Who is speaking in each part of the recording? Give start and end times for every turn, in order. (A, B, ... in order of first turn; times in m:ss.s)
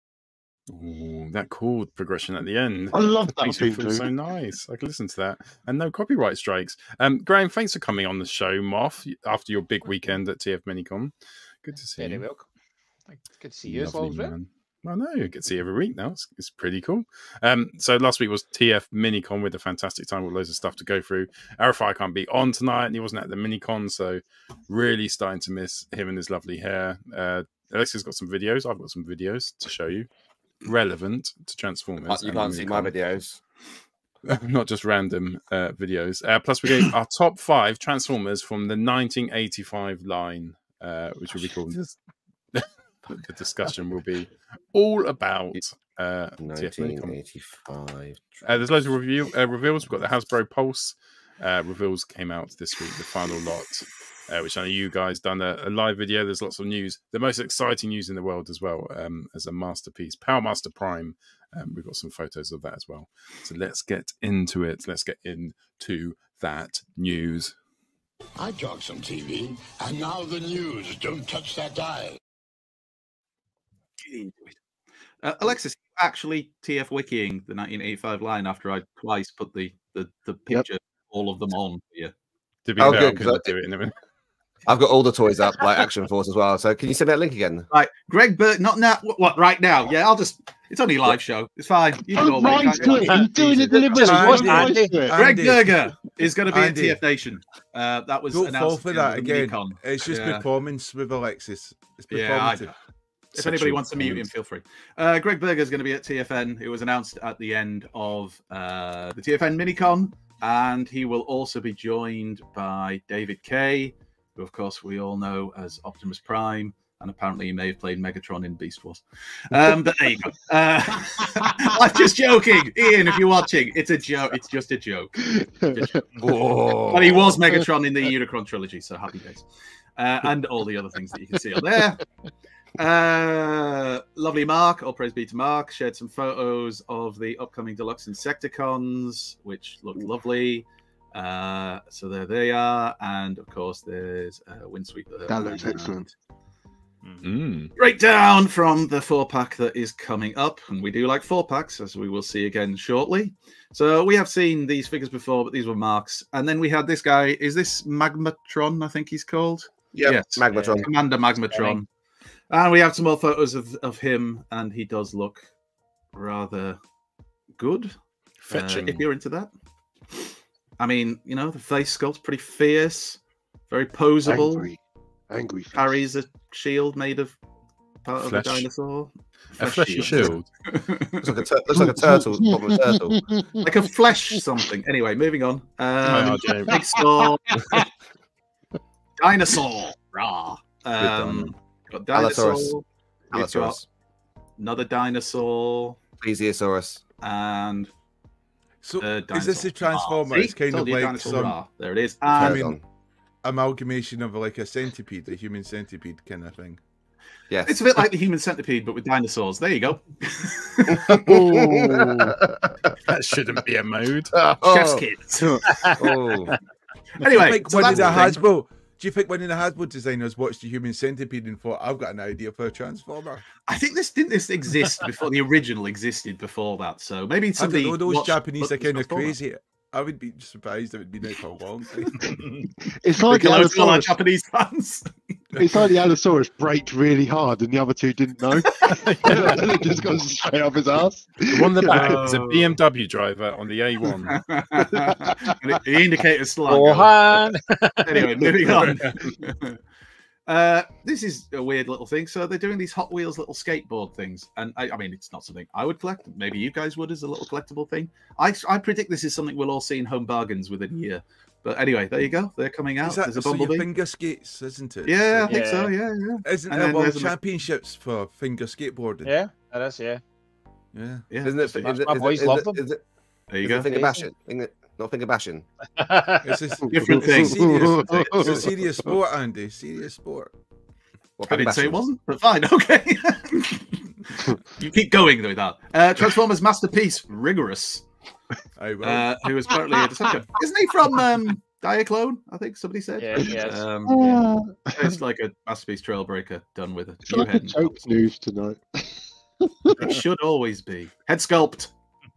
0:00.7-0:12.2 A
0:02.9-0:04.1 B
0:12.0-0:12.4 C
0:13.1-0:14.3 C
0:13.7-0:30.1 A
0:30.6-0:32.9 A
0:32.1-0:33.4 D
0:34.2-0:41.9 A
0:43.1-0:47.1 A
0:46.4-0:48.4 D
0:48.4-1:07.6 A
1:08.4-1:12.2 E
1:14.0-1:14.5 F
1:15.2-1:22.1 F
1:22.6-1:23.9 A
1:22.8-1:23.5 D
1:24.6-1:27.7 D
1:27.7-1:33.9 F
1:32.1-1:35.2 B
1:32.9-1:35.0 C
1:34.0-1:35.9 G
1:35.1-1:40.4 F
1:36.5-1:37.0 G
1:38.3-1:42.7 G
1:42.1-1:42.7 F
1:43.3-1:44.2 A
1:43.3-2:06.2 F
2:05.3-2:05.9 B
2:06.9-2:09.4 F
2:10.0-2:12.0 F
2:12.8-2:26.1 F
2:25.3-2:26.0 B
2:27.2-2:27.7 A
2:27.8-2:41.8 F
2:39.9-2:40.9 D
2:40.5-2:40.8 C
2:41.5-2:41.8 C
2:42.5-2:45.4 F
2:46.1-2:46.8 F
2:47.6-2:47.9 F
2:48.4-2:49.0 A
2:48.5-2:49.5 F
2:50.8-2:54.7 F
2:54.2-2:54.8 B
2:55.3-2:55.9 B
2:55.7-2:57.4 F
2:58.0-3:01.4 F
2:58.2-2:58.7 A
2:59.6-3:00.5 A
3:01.2-3:03.2 D
3:01.8-3:03.7 B
3:03.6-3:07.9 F
3:06.1-3:06.7 A
3:09.2-3:13.8 F
3:11.0-3:11.5 A
3:12.1-3:12.7 D
3:13.3-3:13.8 D
3:14.6-3:16.0 F
3:16.2-3:17.0 D
3:17.2-3:17.9 F
3:18.8-3:21.6 G
3:19.0-3:22.7 F
3:22.3-3:22.8 G
3:22.3-3:22.8 D
3:23.4-3:26.8 G
3:27.5-3:27.8 D
3:27.6-3:31.0 F
3:30.9-3:32.8 D
3:31.1-3:32.3 A
3:33.0-3:34.3 A
3:34.3-3:35.0 D
3:34.6-3:35.8 F
3:35.7-3:36.0 C
3:36.0-3:36.5 D
3:37.2-3:38.4 F
3:37.3-3:43.4 G
3:43.7-3:49.3 F
3:47.6-3:52.2 G
3:53.0-3:54.1 B
3:53.2-3:55.1 F
3:55.6-3:55.8 G
3:55.6-4:02.0 B
3:58.8-3:59.6 F
3:59.3-3:59.5 C
4:01.5-4:04.4 A
4:01.9-4:02.8 F
4:04.3-4:07.4 F
4:06.7-4:08.6 C
4:08.0-4:09.8 F
4:08.7-4:09.2 G
4:10.5-4:23.9 F
4:23.0-4:25.5 G
4:25.0-4:27.3 F
4:25.4-4:25.9 C
4:26.4-4:29.3 G
4:29.2-4:30.2 C
4:30.9-4:31.3 G
4:31.3-4:32.0 F
4:31.4-4:33.0 D
4:31.8-4:32.8 C
4:33.5-4:34.2 F
4:33.6-4:35.6 D
4:36.0-4:36.5 C
4:36.4-4:40.5 G
4:36.9-4:38.6 F
4:37.4-4:38.4 B
4:41.4-4:42.0 D
4:41.5-4:44.0 F
4:44.8-4:48.0 F
4:48.8-4:49.3 G
4:49.0-4:54.4 F
4:53.2-4:53.9 C
4:54.1-4:55.2 B
4:54.9-4:58.2 F
4:57.3-5:00.2 B
5:00.0-5:01.9 F